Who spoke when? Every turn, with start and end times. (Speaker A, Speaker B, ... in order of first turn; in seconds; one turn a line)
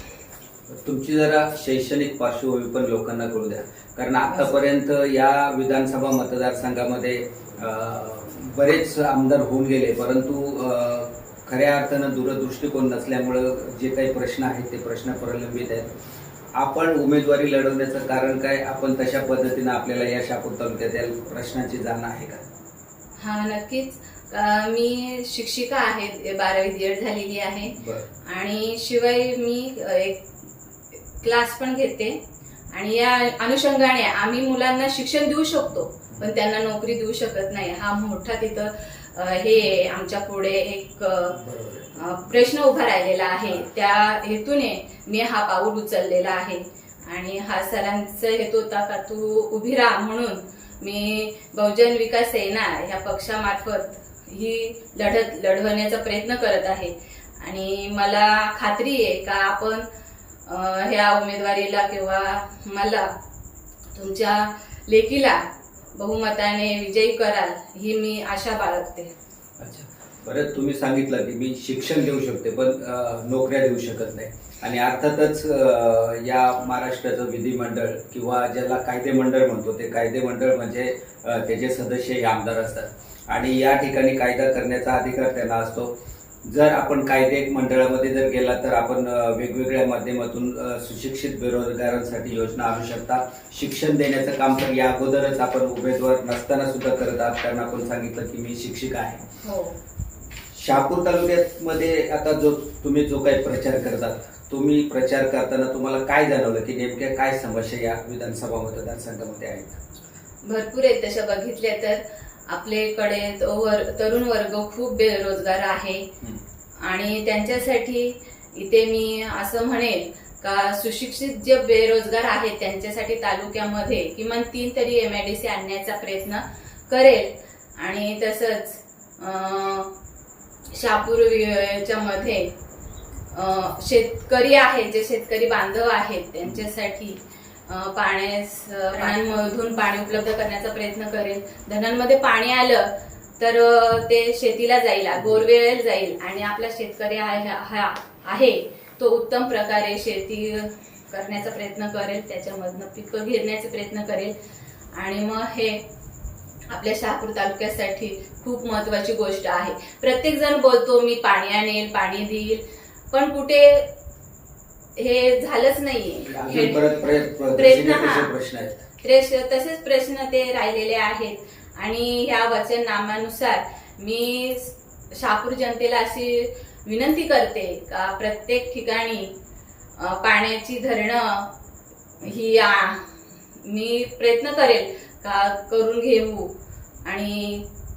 Speaker A: 0.7-15.9
Speaker A: 16.6-22.4
Speaker B: 23.2-30.3
Speaker A: 27.8-28.0
Speaker B: 31.2-32.2
Speaker B: 32.7-41.4
Speaker A: 41.4-41.9
Speaker B: 41.9-59.9
Speaker B: 60.5-63.1
Speaker B: 63.9-65.4
Speaker B: 65.9-69.1
Speaker A: 69.6-85.9
Speaker A: 86.5-99.2
Speaker B: 99.4-99.8
Speaker A: 100.5-109.8
Speaker B: 110.4-116.1
Speaker B: 116.8-129.9
Speaker B: 130.7-132.5
Speaker B: 133.3-154.3
Speaker B: 154.9-155.8
Speaker B: 156.7-163.9
Speaker B: 165.0-166.8
Speaker A: 166.3-168.8
Speaker B: 167.5-168.3
Speaker B: 169.0-179.3
Speaker B: 180.0-181.5
Speaker B: 182.2-183.1
Speaker B: 183.6-186.5
Speaker B: 187.0-187.7